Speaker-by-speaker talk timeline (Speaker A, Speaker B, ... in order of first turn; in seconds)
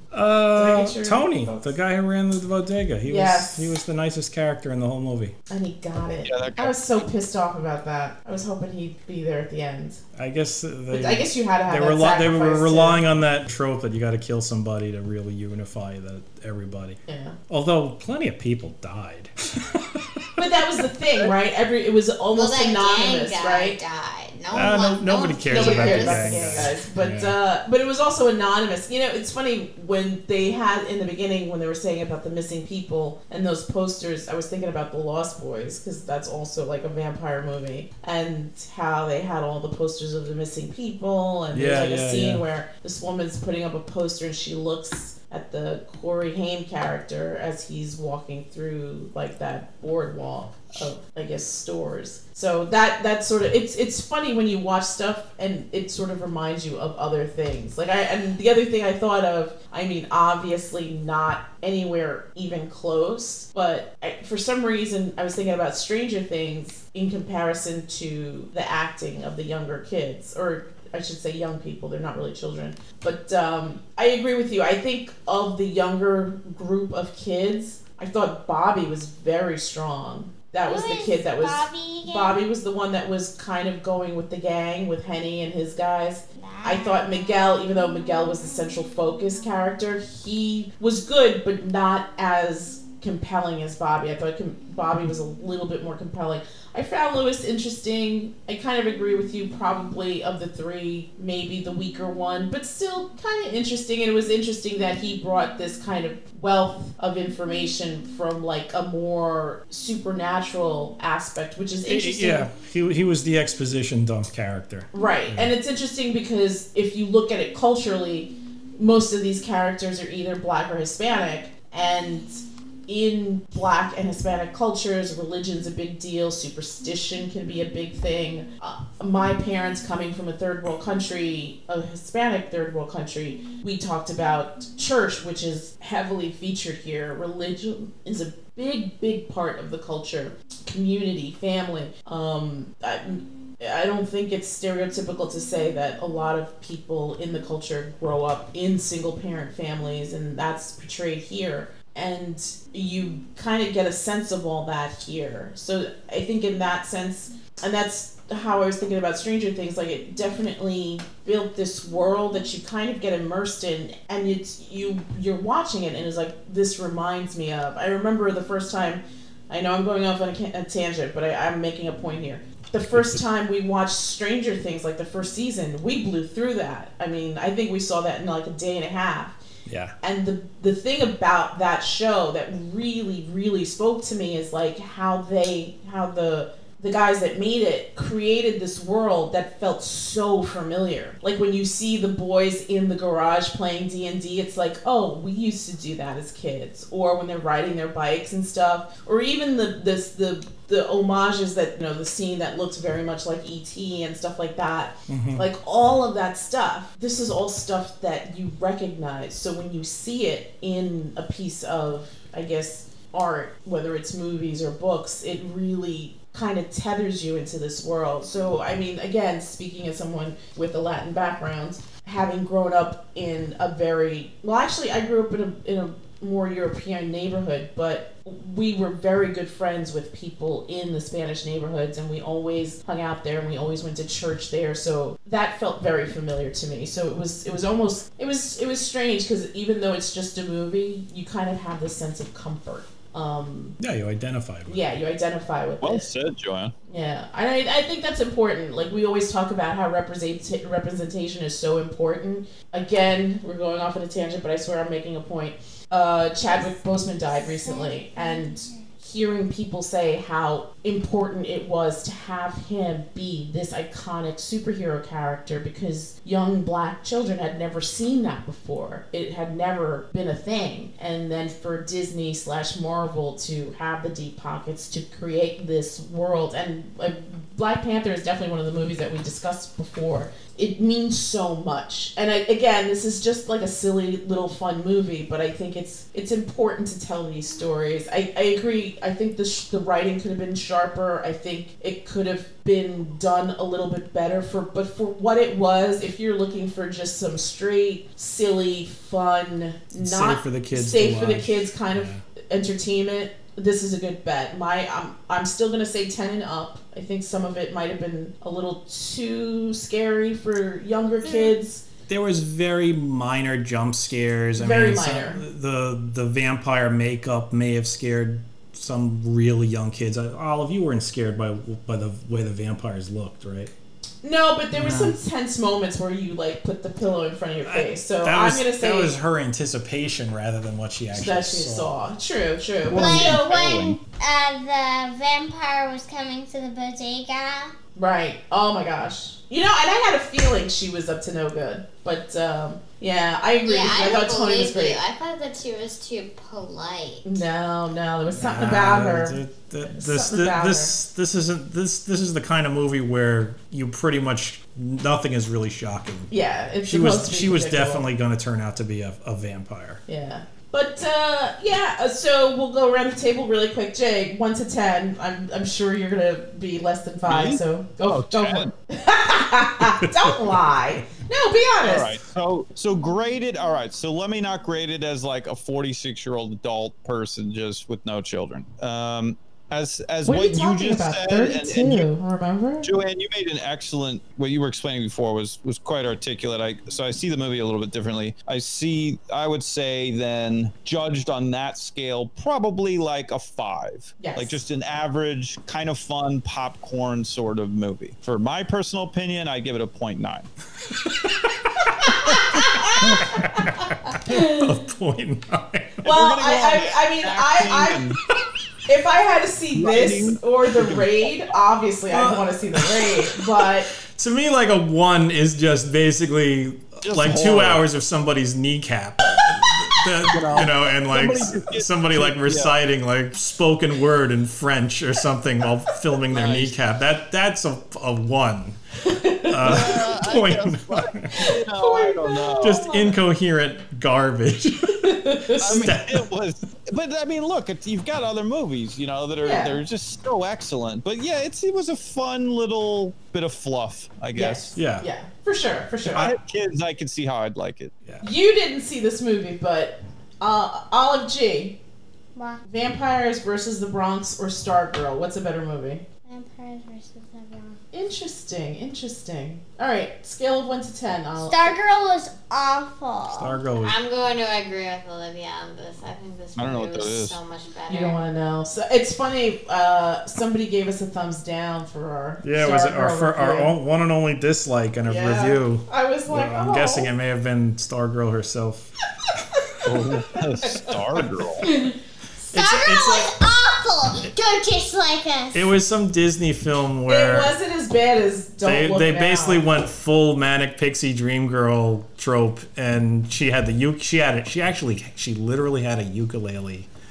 Speaker A: 0.1-5.3, 10.2-20.3, 24.5-27.4, 41.5-42.5, 111.8-115.5, 172.9-173.2, 179.7-179.9, 205.1-205.5, 243.8-244.8, 300.0-302.2, 311.2-311.5, 312.1-323.7, 324.7-325.2, 327.6-332.0, 348.3-356.3, 356.8-360.0, 370.0-370.6, 402.1-406.1, 412.1-428.8, 429.5-431.5, 432.6-436.3, 444.8-445.1, 463.3-464.0, 472.4-478.9, 482.5-483.3, 485.5-487.6, 488.6-496.9
Speaker B: 0.5-1.8, 3.1-3.8, 5.5-10.0, 10.9-13.0, 17.1-17.4, 20.4-23.8, 25.5-112.5, 114.9-179.4, 180.0-243.8, 244.7-246.1, 246.9-311.8, 314.6-315.4, 324.2-329.1, 331.1-333.5, 338.0-345.0, 347.2-350.9, 356.3-358.1, 360.1-372.2, 380.2-382.9, 394.2-394.6, 401.8-404.6, 406.0-408.0, 408.9-413.9, 429.0-430.0, 431.4-433.2, 434.9-435.9, 439.4-439.8, 444.4-446.3, 448.2-451.8, 452.7-456.1, 457.9-461.8, 467.9-473.7, 475.1-477.1, 480.4-480.9, 487.1-489.6
Speaker C: 6.2-6.8, 245.8-246.7, 332.9-334.0, 367.3-368.7, 371.8-382.1, 382.8-400.5, 406.0-408.2, 409.8-411.4, 417.0-417.8, 420.2-422.8, 426.3-426.8, 429.6-432.9, 435.6-444.8, 446.1-447.9, 466.6-467.4, 479.8-481.7
Speaker D: 22.3-26.7, 343.7-347.4, 463.8-468.2
Speaker E: 80.7-82.4, 86.4-87.2, 257.3-258.8, 332.9-337.7, 452.4-452.6, 456.3-457.8, 461.4-463.6, 481.6-481.9, 482.5-485.7